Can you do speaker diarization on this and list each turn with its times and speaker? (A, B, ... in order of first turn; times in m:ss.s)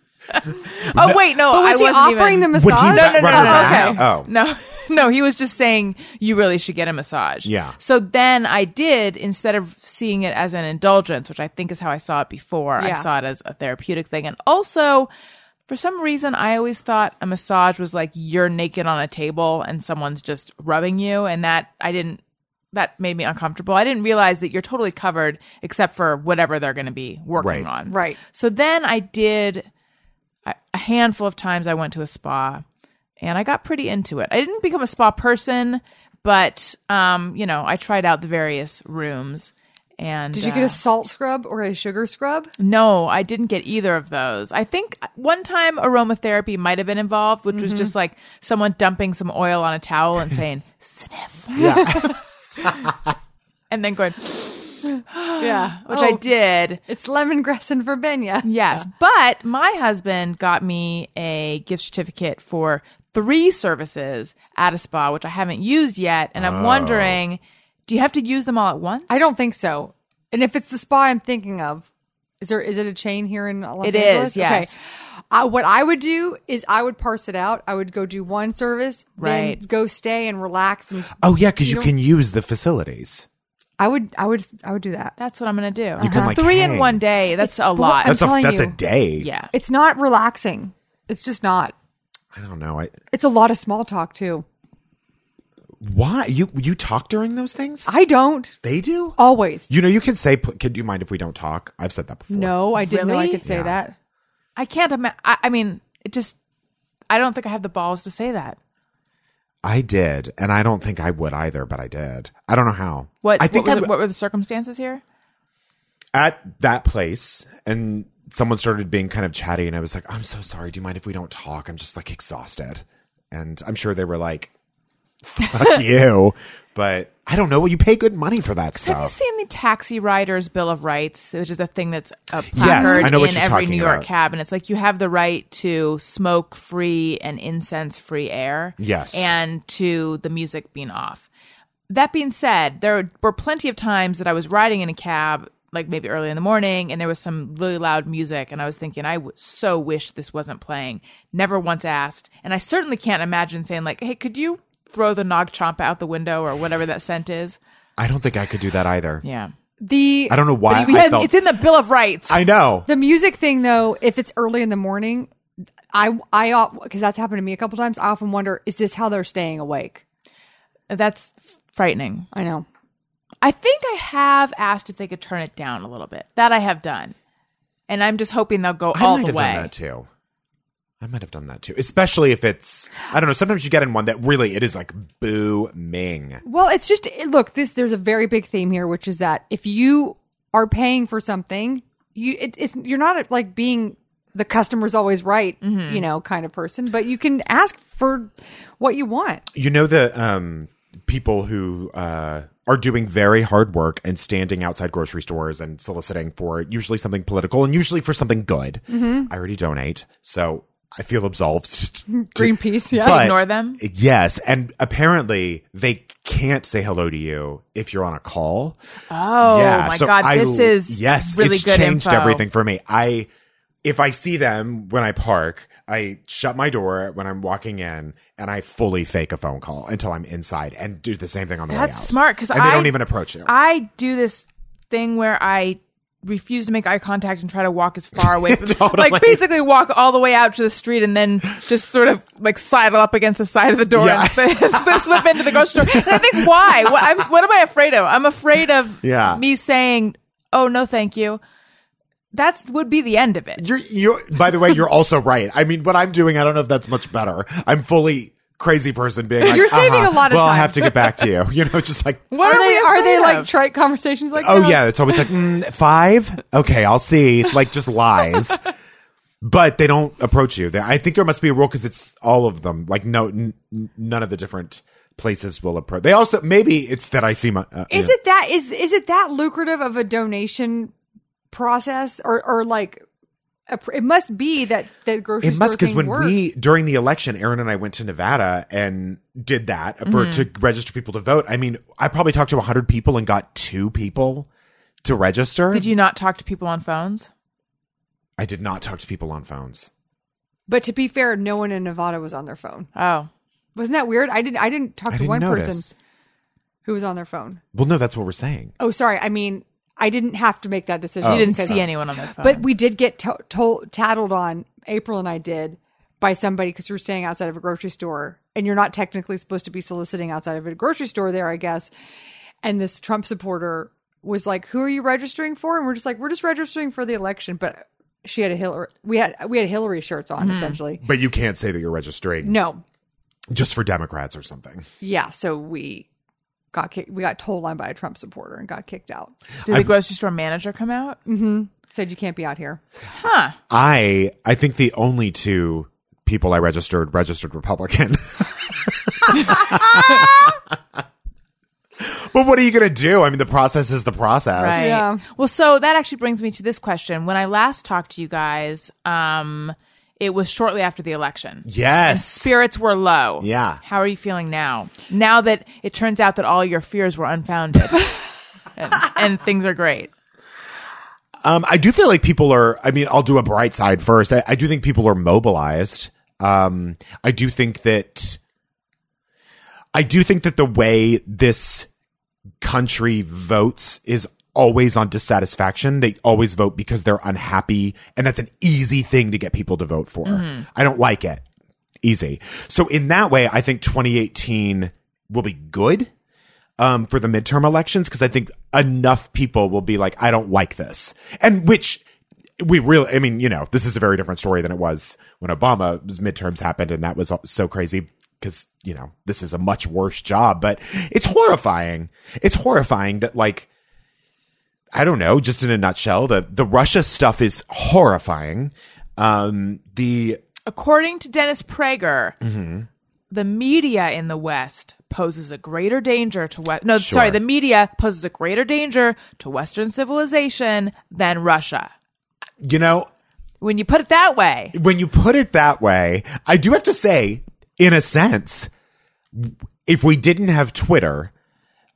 0:00.3-0:15.1 A
0:00.9-0:01.2 B
0:01.4-0:04.0 C
0:02.5-0:04.3 B
0:07.4-0:07.8 B
0:12.8-0:13.0 C
0:15.7-0:22.2 A
0:22.7-0:29.7 A
0:27.4-0:27.7 B
0:27.8-0:28.2 C
0:30.4-0:32.6 A
0:33.2-0:40.8 A
0:40.3-0:42.5 C
0:42.6-0:52.2 A
0:47.5-0:47.9 C
0:51.6-0:53.1 B
0:51.6-0:52.1 C
0:53.7-0:56.8 A
0:55.4-0:56.2 C
0:56.9-0:58.8 C
0:58.4-1:09.2 A
1:06.4-1:07.2 B
1:09.1-1:11.8 C
1:12.4-1:14.7 C
1:13.8-1:14.7 A
1:15.3-1:21.9 C
1:19.2-1:19.6 A
1:21.2-1:23.2 B
1:23.8-1:25.2 C
1:25.2-1:28.2 A
1:26.0-1:26.4 C
1:26.0-1:27.0 B
1:27.4-1:28.8 C
1:28.0-1:29.3 B
1:29.2-1:29.5 A
1:29.5-1:31.7 C
1:32.3-1:32.9 B
1:33.1-1:34.4 C
1:35.8-1:37.9 B
1:37.9-1:38.6 C
1:38.6-1:39.2 B
1:39.2-1:39.7 C
1:39.7-1:42.7 B
1:42.3-1:43.9 C
1:42.8-1:43.4 A
1:43.4-1:43.8 B
1:44.6-1:46.4 A
1:47.1-1:48.6 A
1:49.6-1:53.9 B
1:53.2-1:55.0 A
1:56.1-2:04.5 B
2:05.2-2:09.1 B
2:08.8-2:21.3 A
2:12.5-2:14.1 B
2:12.6-2:13.2 C
2:18.8-2:19.3 B
2:21.9-2:37.6 A
2:38.0-2:39.2 B
2:39.2-2:39.5 A
2:39.8-2:40.4 C
2:40.3-2:41.3 B
2:40.7-2:42.4 A
2:42.3-2:42.9 B
2:42.9-2:45.3 C
2:45.9-2:50.0 C
2:50.9-2:52.3 A
2:52.3-2:52.6 C
2:53.4-2:57.1 A
2:57.9-2:59.7 A
2:58.9-3:00.1 B
3:01.0-3:06.4 B
3:06.4-3:19.4 C
3:15.6-3:16.0 A
3:19.5-3:38.8 B
3:28.9-3:29.3 C
3:32.1-3:33.3 C
3:33.0-3:33.8 A
3:39.1-3:42.4 A
3:39.4-3:43.3 B
3:43.8-3:53.5 B
3:51.7-4:11.4 A
3:58.2-3:59.5 B
4:03.9-4:07.0 B
4:09.0-4:09.4 B
4:12.3-4:13.6 A
4:13.6-4:22.3 B
4:19.4-4:21.1 C
4:22.3-4:23.5 A
4:22.4-4:24.9 C
4:24.4-4:28.6 B
4:29.4-4:38.1 B
4:37.9-4:40.9 C
4:41.5-4:43.0 C
4:43.7-4:46.4 C
4:45.4-4:54.5 B
4:50.0-4:50.5 A
4:55.0-4:55.9 B
4:55.7-4:57.3 A
4:58.4-4:59.9 B
5:00.7-5:02.9 C
5:02.9-5:03.3 A
5:03.7-5:05.9 C
5:05.1-5:05.9 B
5:06.8-5:07.6 C
5:07.7-5:08.7 B
5:08.8-5:11.8 C
5:11.2-5:11.8 B
5:11.2-5:12.6 A
5:12.4-5:21.9 C
5:22.6-5:31.0 C
5:30.4-5:30.8 A
5:31.0-5:32.6 B
5:32.4-5:32.8 C
5:33.5-5:34.9 B
5:35.0-5:36.1 C
5:36.7-5:39.3 C
5:39.6-5:41.2 A
5:39.7-5:39.9 B
5:41.2-5:42.8 C
5:43.1-5:43.6 A
5:43.7-5:50.6 B
5:52.0-5:55.0 B
5:54.5-6:08.2 A
5:54.7-5:55.2 C
6:01.6-6:02.5 B
6:03.4-6:03.8 B
6:08.8-6:10.1 A
6:11.4-6:18.4 B
6:19.9-6:21.9 B
6:22.6-6:31.4 B
6:30.2-6:30.6 A
6:32.0-6:36.1 B
6:36.8-6:42.0 B
6:42.6-6:53.7 B
6:54.9-7:00.4 B
7:00.6-7:02.4 A
7:02.4-7:02.9 B
7:03.3-7:11.9 A
7:07.0-7:07.4 B
7:12.6-7:13.1 B
7:13.6-7:14.7 A
7:14.7-7:18.7 B
7:19.3-7:21.3 B